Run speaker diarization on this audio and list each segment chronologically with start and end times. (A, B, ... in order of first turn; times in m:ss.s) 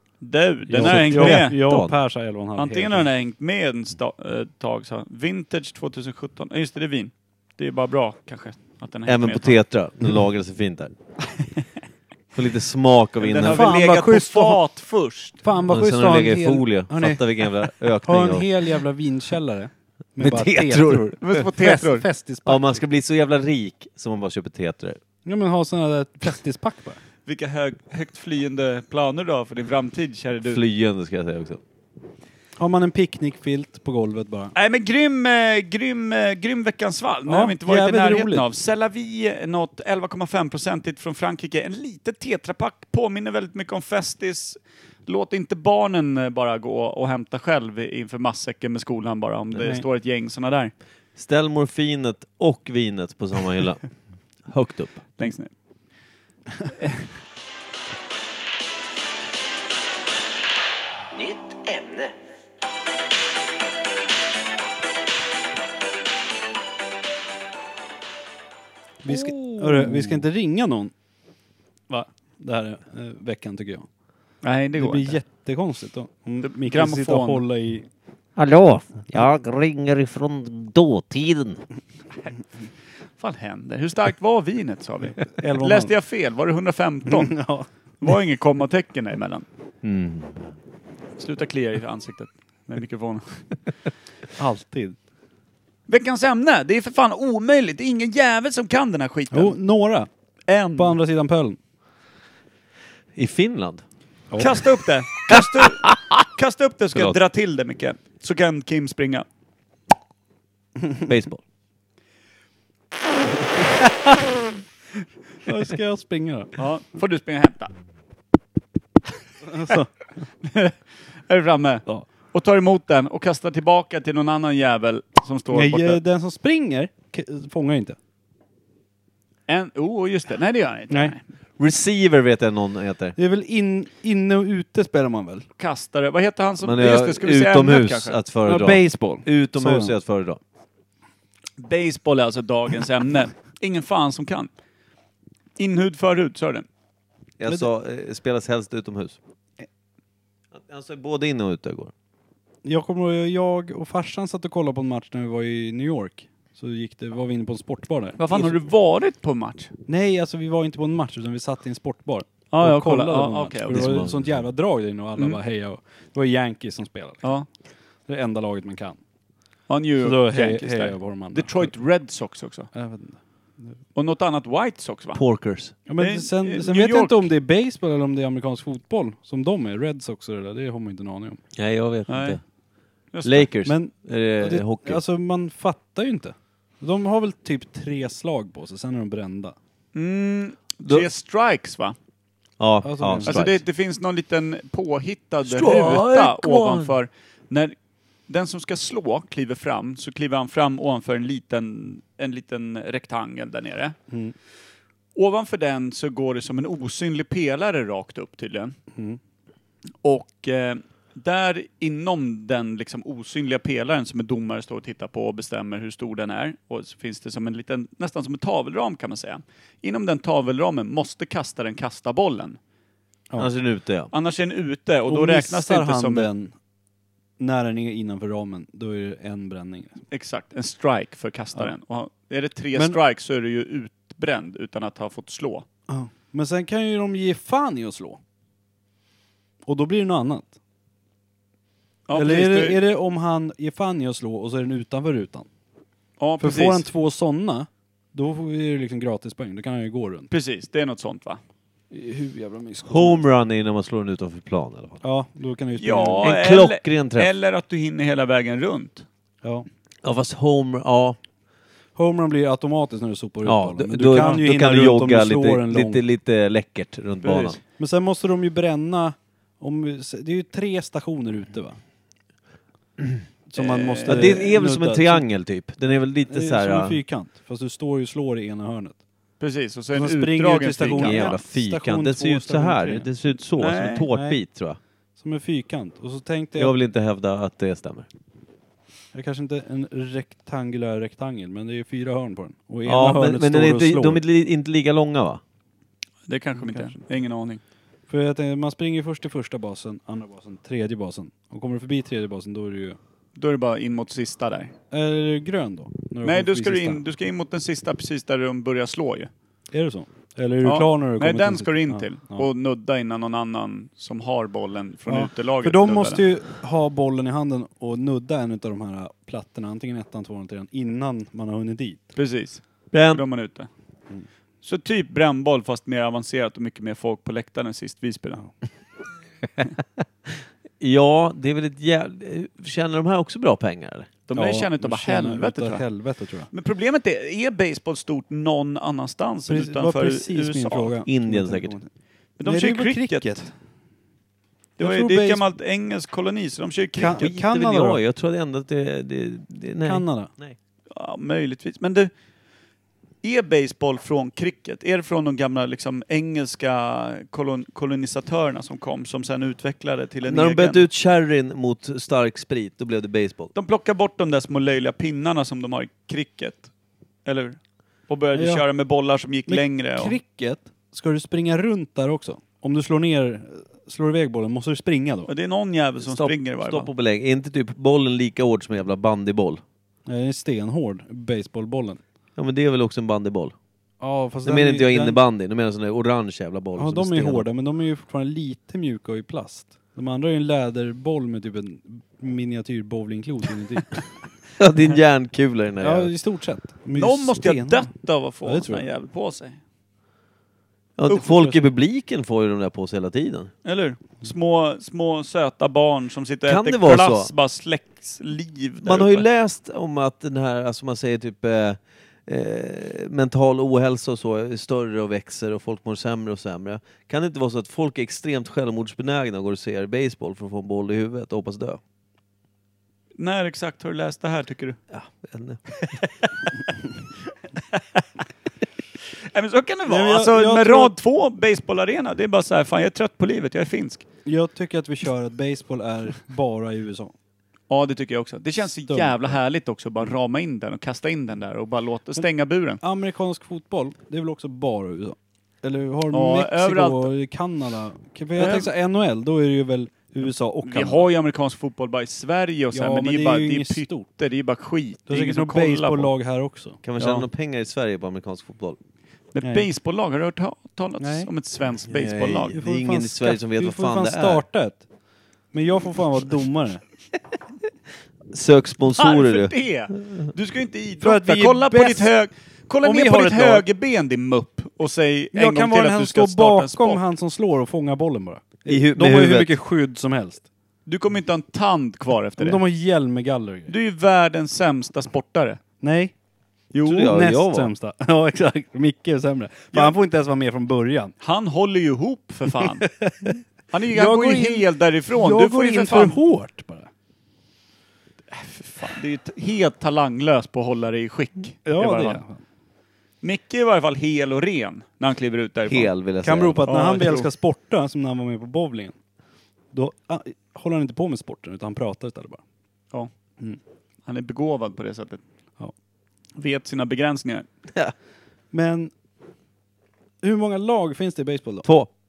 0:00.2-0:01.6 A
0:00.7-0:03.0 B
0:00.8-0:02.0 C
0:02.6-0:09.6 A
0:09.1-0:10.9 C
0:12.3-0:13.7 C
0:13.2-0:15.4 A
0:13.4-0:14.6 B
0:15.4-0:17.5 B
0:15.7-0:18.7 C
0:18.0-0:22.8 B
0:20.2-0:21.4 C
0:21.2-0:22.0 A
0:22.5-0:25.0 C
0:25.2-0:27.0 B
0:27.3-0:30.6 A
0:30.4-0:31.6 C
0:32.6-0:34.5 B
0:34.6-0:50.7 A
0:37.3-0:38.4 B
0:51.2-0:53.8 C
0:54.5-0:55.1 C
0:55.2-0:55.5 A
1:01.2-1:02.1 C
1:09.0-1:10.9 B
1:09.1-1:10.1 A
1:11.9-1:13.9 B
1:14.4-1:15.2 A
1:14.8-1:17.9 B
1:16.4-1:17.4 A
1:18.4-1:21.6 C
1:23.2-1:27.4 A
1:25.4-1:25.9 B
1:27.1-1:27.7 B
1:28.0-1:29.5 A
1:29.8-1:30.5 C
1:31.2-1:33.4 A
1:34.4-1:35.0 B
1:35.9-1:39.6 A
1:39.3-1:40.1 B
1:40.5-1:41.0 A
1:40.8-1:41.6 B
1:43.2-1:43.8 C
1:44.4-1:49.2 A
1:45.3-1:46.1 C
1:46.9-1:47.2 C
1:51.1-1:51.4 C
1:55.4-1:56.6 B
1:56.6-1:57.7 A
1:59.4-1:59.9 B
2:00.4-2:00.8 A
2:01.3-2:06.0 A
2:05.5-2:08.0 B
2:09.5-2:11.2 A
2:10.9-2:11.2 B
2:11.6-2:13.2 C
2:13.2-2:15.5 B
2:15.6-2:18.2 A
2:16.6-2:20.4 C
2:18.4-2:20.0 B
2:21.6-2:24.5 A
2:25.6-2:26.7 A
2:27.4-2:29.2 C
2:30.5-2:31.9 C
2:32.6-2:38.6 B
2:38.2-2:39.7 A
2:39.9-2:47.3 B
2:42.5-2:44.0 A
2:43.7-2:44.4 C
2:48.1-2:49.0 B
2:49.7-2:52.7 A
2:50.0-2:51.7 B
2:52.7-2:53.8 B
2:54.0-2:55.2 A
2:55.1-2:55.8 C
2:55.9-3:01.4 B
2:56.0-2:57.2 A
3:01.6-3:02.4 C
3:02.1-3:02.4 A
3:03.1-3:03.5 A
3:03.2-3:05.0 C
3:03.7-3:09.6 B
3:09.9-3:12.0 A
3:12.6-3:13.6 C
3:12.8-3:13.4 B
3:13.3-3:17.8 A
3:15.4-3:17.0 C
3:18.3-3:24.0 A
3:25.2-3:28.8 A
3:30.0-3:42.6 A
3:43.4-3:44.1 C
3:44.1-3:46.3 A
3:45.1-3:46.6 B
3:47.4-3:50.0 B
3:50.1-3:55.6 A
3:55.9-3:58.2 B
3:59.6-4:00.5 B
4:02.1-4:02.8 A
4:02.1-4:05.5 B
4:06.2-4:06.8 A
4:06.4-4:10.3 B
4:10.3-4:11.4 A
4:11.9-4:13.2 B
4:12.9-4:15.0 C
4:15.0-4:16.3 B
4:15.8-4:19.0 A
4:16.2-4:17.3 C
4:20.0-4:21.2 C
4:22.0-4:26.0 B
4:23.4-4:27.6 C
4:27.8-4:31.8 B
4:33.5-4:35.2 B
4:33.6-4:34.4 A
4:34.1-4:37.0 C
4:36.3-4:39.0 B
4:39.4-4:41.4 A
4:39.9-4:43.1 B
4:40.9-4:44.8 C
4:43.6-4:44.1 A
4:44.1-4:44.4 B
4:45.2-4:46.7 B
4:46.6-4:48.1 C
4:49.1-4:54.2 B
4:52.9-4:55.4 C
4:56.3-4:57.6 A
4:56.6-4:57.0 B
4:58.1-5:03.0 B
5:03.4-5:04.7 A
5:04.9-5:07.0 B
5:06.2-5:09.3 A
5:09.7-5:12.5 B
5:10.6-5:16.2 A
5:15.1-5:22.0 B
5:22.2-5:23.7 A
5:22.9-5:23.2 C
5:24.6-5:28.4 A
5:30.8-5:34.1 C
5:34.3-5:35.9 A
5:34.3-5:36.5 B
5:36.5-5:40.9 A
5:39.5-5:41.9 B
5:41.1-5:41.8 C
5:42.4-5:43.4 A
5:42.4-5:43.5 B
5:44.8-5:47.3 A
5:44.8-5:45.4 B
5:47.0-5:48.0 B
5:47.2-5:50.6 C
5:49.8-5:50.3 B
5:50.9-5:52.1 A
5:53.2-6:00.8 A
6:00.3-6:03.5 C
6:03.6-6:06.7 A
6:07.2-6:10.2 A
6:08.4-6:08.6 B
6:09.5-6:15.3 B
6:15.3-6:16.9 A
6:16.0-6:19.6 C
6:20.1-6:22.0 B
6:22.4-6:23.5 C
6:24.0-6:25.2 B
6:24.4-6:27.5 C
6:26.8-6:34.0 B
6:34.6-6:36.1 C
6:35.8-6:37.9 B
6:37.0-6:39.6 A
6:38.4-6:38.8 B
6:41.0-6:43.5 C
6:41.1-6:41.4 A
6:43.6-6:49.3 A
6:46.5-6:47.3 C
6:48.8-7:01.8 C
7:03.2-7:04.8 A
7:04.9-7:05.6 C
7:07.7-7:08.0 A
7:09.2-7:14.0 A
7:09.9-7:10.9 B
7:14.3-7:17.1 B
7:17.7-7:22.8 A
7:18.9-7:19.4 B
7:22.8-7:31.1 B
7:26.1-7:27.1 A
7:28.4-7:28.7 A
7:30.7-7:36.1 A
7:32.7-7:34.1 B
7:35.1-7:37.2 B
7:36.8-7:38.8 C
7:39.3-7:42.5 A
7:39.4-7:39.7 B
7:41.0-7:41.3 B
7:41.9-7:44.4 C
7:42.5-7:44.8 B
7:45.5-7:46.8 B
7:48.3-7:49.5 C
7:49.0-7:57.0 A
7:51.0-7:52.1 B
7:52.8-7:53.6 B
7:55.3-8:00.4 B
7:58.7-7:59.5 C
8:00.9-8:02.6 A
8:02.4-8:03.7 B
8:03.7-8:05.6 A
8:05.8-8:06.1 B
8:06.7-8:07.1 A
8:06.8-8:07.7 C
8:06.9-8:11.1 B
8:11.2-8:12.9 A
8:13.0-8:13.3 B
8:13.7-8:16.2 A
8:13.9-8:16.9 B
8:18.3-8:22.2 A
8:21.7-8:22.4 B
8:23.2-8:25.9 A
8:25.7-8:26.7 C
8:26.2-8:29.0 B
8:26.7-8:27.3 A
8:29.7-8:32.4 B
8:34.0-8:35.2 A
8:36.4-8:37.5 A
8:38.5-8:38.9 B
8:40.2-8:41.7 B